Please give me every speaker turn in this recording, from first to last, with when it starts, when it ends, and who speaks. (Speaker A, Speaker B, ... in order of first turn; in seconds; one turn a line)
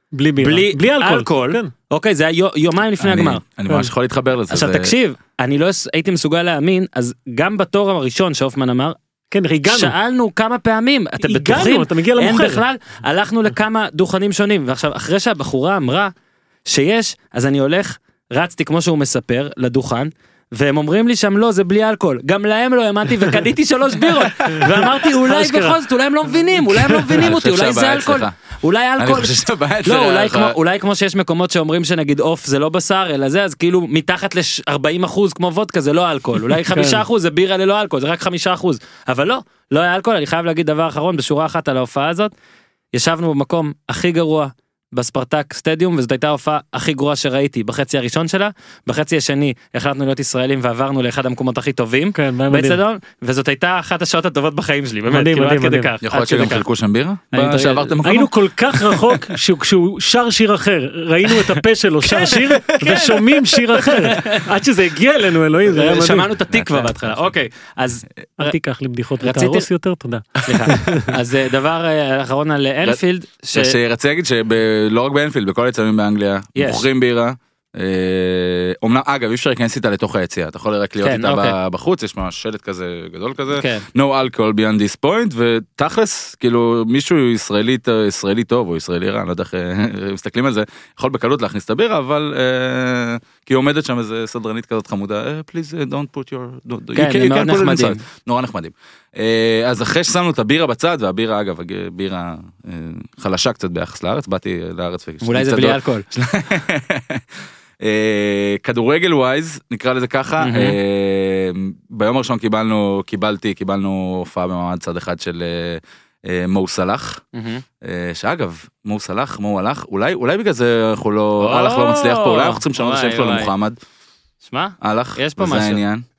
Speaker A: 0.1-1.7
Speaker B: 0.4-3.4
Speaker C: 3.0-4.9
Speaker B: 4.5-8.9
Speaker A: 9.3-9.9
Speaker B: 9.7-16.1
Speaker A: 11.2-12.6
Speaker B: 16.6-42.3
Speaker A: 24.6-25.8
Speaker C: 27.1-28.3
Speaker C: 29.0-30.6
Speaker A: 36.7-37.0
Speaker B: 42.9-56.6
Speaker A: 52.1-52.8
Speaker A: 55.1-55.9
Speaker C: 56.0-58.3
Speaker B: 57.3-58.0
Speaker A: 58.0-66.3
Speaker B: 62.0-63.2
Speaker B: 63.7-64.4
Speaker B: 65.7-68.5
Speaker C: 66.5-67.3
Speaker A: 68.4-71.1
Speaker B: 69.2-69.7
Speaker B: 70.4-73.8
Speaker C: 73.5-107.2
Speaker B: 76.5-76.8
Speaker B: 81.0-81.6
Speaker B: 83.5-83.8
Speaker B: 96.9-98.0
Speaker B: 105.2-106.0
Speaker C: 107.8-117.2
Speaker B: 110.4-110.8
Speaker B: 117.3-117.6
Speaker C: 117.8-123.8
Speaker B: 121.4-123.5
Speaker B: 124.4-125.8
Speaker C: 124.8-126.0